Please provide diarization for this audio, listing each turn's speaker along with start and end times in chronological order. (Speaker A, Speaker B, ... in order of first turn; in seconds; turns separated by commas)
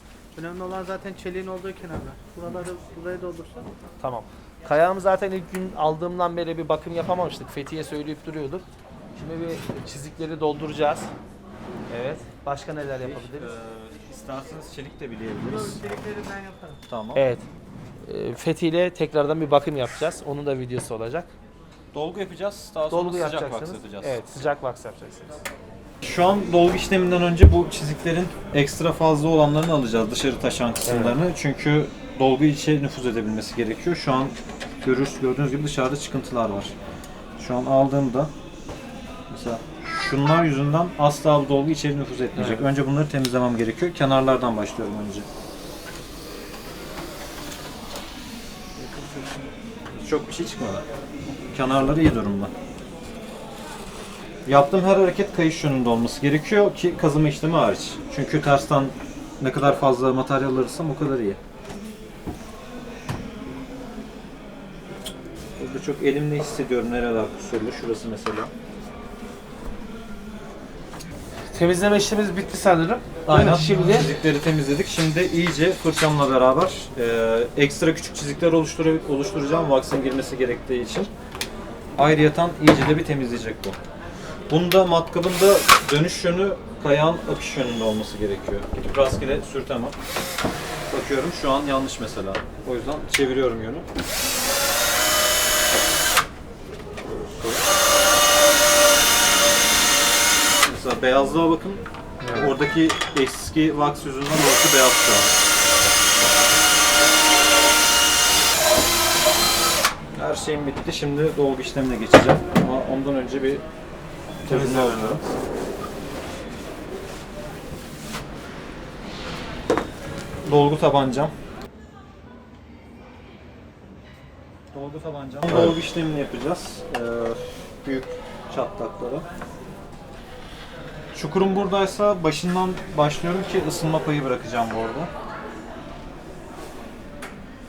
Speaker A: 0.4-3.6, Speaker B: 4.0-8.7, Speaker B: 9.2-11.1, Speaker B: 11.9-13.5, Speaker C: 12.9-15.8, Speaker A: 16.1-16.7, Speaker C: 16.9-17.2, Speaker B: 17.1-17.4, Speaker B: 18.1-21.3, Speaker C: 21.9-24.5, Speaker B: 22.9-25.4, Speaker C: 26.0-36.8, Speaker B: 30.9-31.2, Speaker C: 37.4-38.3, Speaker C: 39.3-45.3, Speaker B: 42.4-42.6, Speaker C: 50.0-50.9, Speaker C: 51.5-52.5, Speaker C: 54.5-61.4, Speaker C: 65.6-68.5, Speaker B: 71.5-74.1, Speaker C: 73.3-81.1, Speaker C: 82.0-83.8, Speaker C: 84.5-90.0, Speaker C: 90.9-93.9, Speaker C: 97.0-97.6, Speaker C: 100.6-105.3, Speaker B: 102.2-102.5, Speaker C: 110.2-113.6, Speaker C: 114.5-115.2, Speaker C: 120.5-121.3, Speaker C: 124.7-129.3, Speaker C: 131.1-135.1